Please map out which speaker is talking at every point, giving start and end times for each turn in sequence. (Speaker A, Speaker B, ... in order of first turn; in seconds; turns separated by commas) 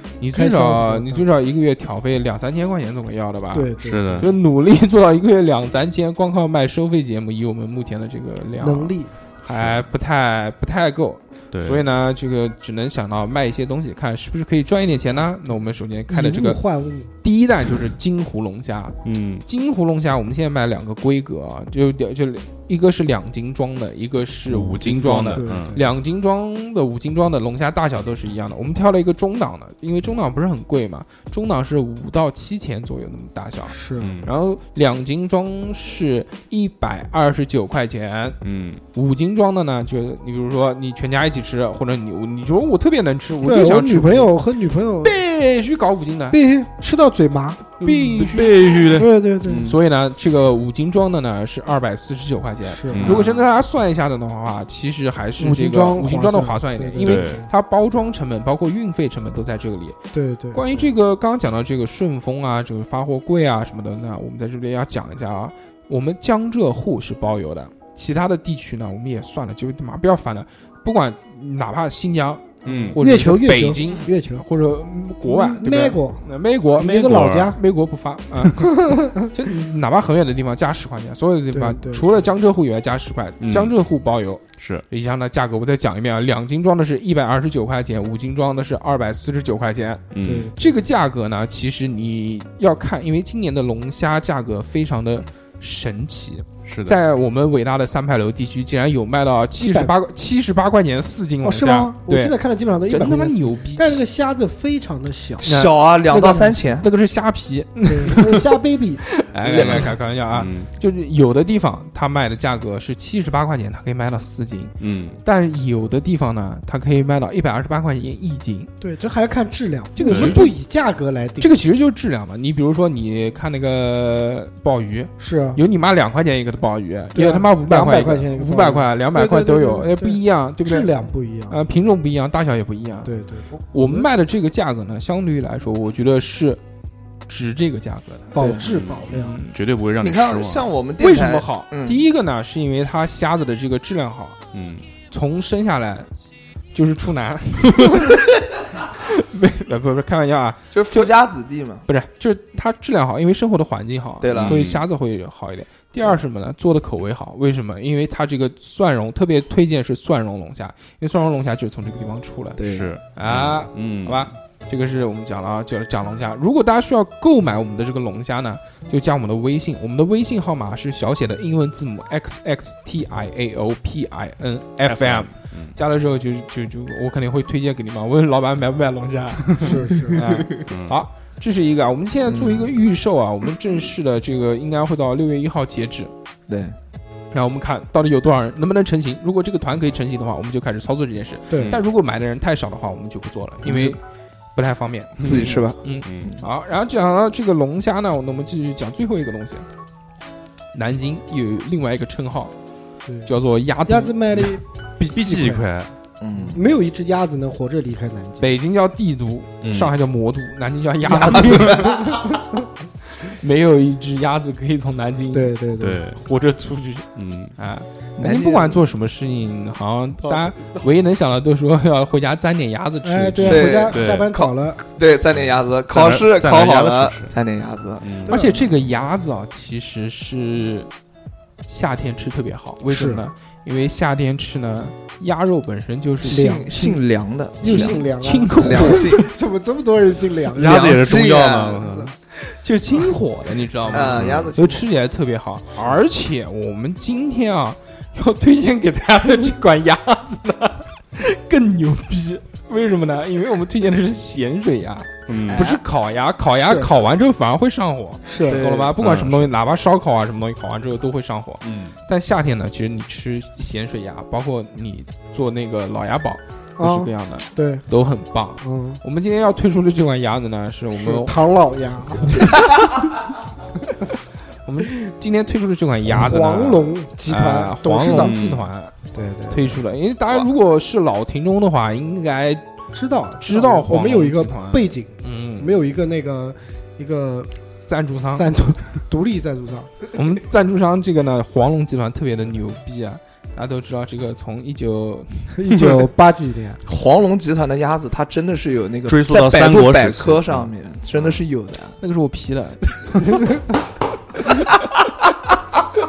Speaker A: 0.2-16.6, Speaker B: 0.3-1.3, Speaker B: 3.5-4.3, Speaker C: 3.8-4.3, Speaker B: 8.6-9.2, Speaker C: 9.5-9.8, Speaker C: 11.5-11.8, Speaker B: 16.1-17.1, Speaker A: 17.2-38.4, Speaker C: 19.0-19.4, Speaker C: 24.5-25.8, Speaker B: 25.3-25.9, Speaker B: 33.7-34.2, Speaker C: 34.0-34.3, Speaker C: 38.4-38.8, Speaker A: 38.9-44.4, Speaker B: 43.4-45.2, Speaker A: 45.0-46.4, Speaker B: 46.3-47.8, Speaker A: 47.8-48.9, Speaker C: 47.8-49.8, Speaker B: 48.9-49.7, Speaker A: 49.6-60.0, Speaker B: 52.6-53.3, Speaker C: 52.9-53.3, Speaker B: 55.4-57.5, Speaker C: 57.0-57.5, Speaker B: 60.1-60.9, Speaker A: 60.5-102.4, Speaker C: 72.7-73.0, Speaker B: 72.7-74.5, Speaker B: 75.2-76.2, Speaker B: 76.8-77.6, Speaker C: 77.0-77.6, Speaker B: 78.6-79.3, Speaker B: 81.5-82.1, Speaker C: 83.4-83.7, Speaker C: 84.6-84.8, Speaker C: 90.1-90.5, Speaker B: 90.2-90.7, Speaker C: 96.7-97.0, Speaker B: 99.6-100.0, Speaker B: 101.4-106.6, Speaker A: 102.9-104.0, Speaker D: 105.4-106.9, Speaker A: 105.4-105.8, Speaker A: 106.8-108.5, Speaker B: 107.8-109.0, Speaker A: 109.1-118.7, Speaker D: 109.5-109.9, Speaker C: 109.8-110.7, Speaker C: 114.8-115.2, Speaker B: 118.8-121.5, Speaker A: 120.0-120.6, Speaker C: 120.0-120.4, Speaker A: 121.4-130.9, Speaker B: 125.2-125.6, Speaker B: 127.2-131.6, Speaker A: 131.5-133.1, Speaker B: 133.1-134.1, Speaker A: 133.7-136.6, Speaker A: 137.3-138.4, Speaker B: 138.3-139.4, Speaker D: 138.4-138.7, Speaker C: 138.7-140.7, Speaker A: 139.1-139.6, Speaker D: 140.0-142.0, Speaker A: 141.0-144.4, Speaker C: 144.5-144.9, Speaker A: 145.1-146.1, Speaker A: 146.7-148.3, Speaker A: 149.0-151.1, Speaker D: 150.7-151.8, Speaker A: 151.9-162.6, Speaker D: 154.2-154.6, Speaker C: 154.3-154.8, Speaker D: 162.6-162.9, Speaker C: 162.6-164.2, Speaker A: 163.1-186.1, Speaker C: 174.8-175.8, Speaker B: 179.6-180.3, Speaker C: 180.6-181.0, Speaker D: 182.3-182.7, Speaker D: 186.5-186.8, Speaker A: 187.3-194.0, Speaker B: 191.5-191.8, Speaker C: 191.6-191.8, Speaker D: 193.7-193.9, Speaker A: 194.6-199.7, Speaker C: 195.2-195.5, Speaker D: 195.2-196.4, Speaker C: 196.1-196.3, Speaker A: 200.7-202.5, Speaker B: 203.1-203.3, Speaker A: 203.2-204.2, Speaker B: 203.9-205.7, Speaker C: 205.1-205.9, Speaker D: 206.2-206.6, Speaker B: 206.4-208.5, Speaker A: 208.4-212.2, Speaker C: 209.6-209.9, Speaker B: 211.0-212.6, Speaker D: 211.4-212.0, Speaker A: 213.2-215.6, Speaker B: 215.3-216.0, Speaker C: 215.8-216.2, Speaker A: 216.1-223.8, Speaker C: 217.2-217.6, Speaker D: 218.2-218.8, Speaker B: 223.0-224.8, Speaker D: 223.4-228.3, Speaker C: 223.9-224.3, Speaker C: 225.4-227.3, Speaker C: 228.0-228.3, Speaker B: 228.3-228.7, Speaker A: 228.3-230.9, Speaker A: 231.7-236.6, Speaker B: 232.9-233.2, Speaker D: 236.2-238.0, Speaker B: 236.2-237.0, Speaker B: 237.6-241.2, Speaker A: 237.6-239.1, Speaker D: 238.6-239.3, Speaker C: 240.5-242.1, Speaker D: 240.6-241.9, Speaker B: 241.8-242.1, Speaker A: 242.4-271.4, Speaker D: 243.9-244.9, Speaker C: 244.0-244.5, Speaker C: 255.3-255.7, Speaker D: 255.5-255.8, Speaker B: 256.5-256.9, Speaker B: 258.2-258.7, Speaker D: 258.4-258.9, Speaker C: 259.0-259.5, Speaker C: 261.6-261.9, Speaker B: 266.8-267.9, Speaker B: 268.6-269.0, Speaker B: 270.9-272.8, Speaker A: 274.6-278.9, Speaker B: 276.1-278.4, Speaker C: 278.1-278.7, Speaker B: 279.1-279.8, Speaker A: 279.5-282.7, Speaker B: 282.9-287.5, Speaker A: 283.4-285.8, Speaker A: 287.9-288.5, Speaker B: 288.3-290.1, Speaker A: 290.1-295.6, Speaker B: 295.5-296.8, Speaker D: 296.9-302.0, Speaker C: 299.1-301.4, Speaker A: 302.0-303.6, Speaker D: 304.8-305.1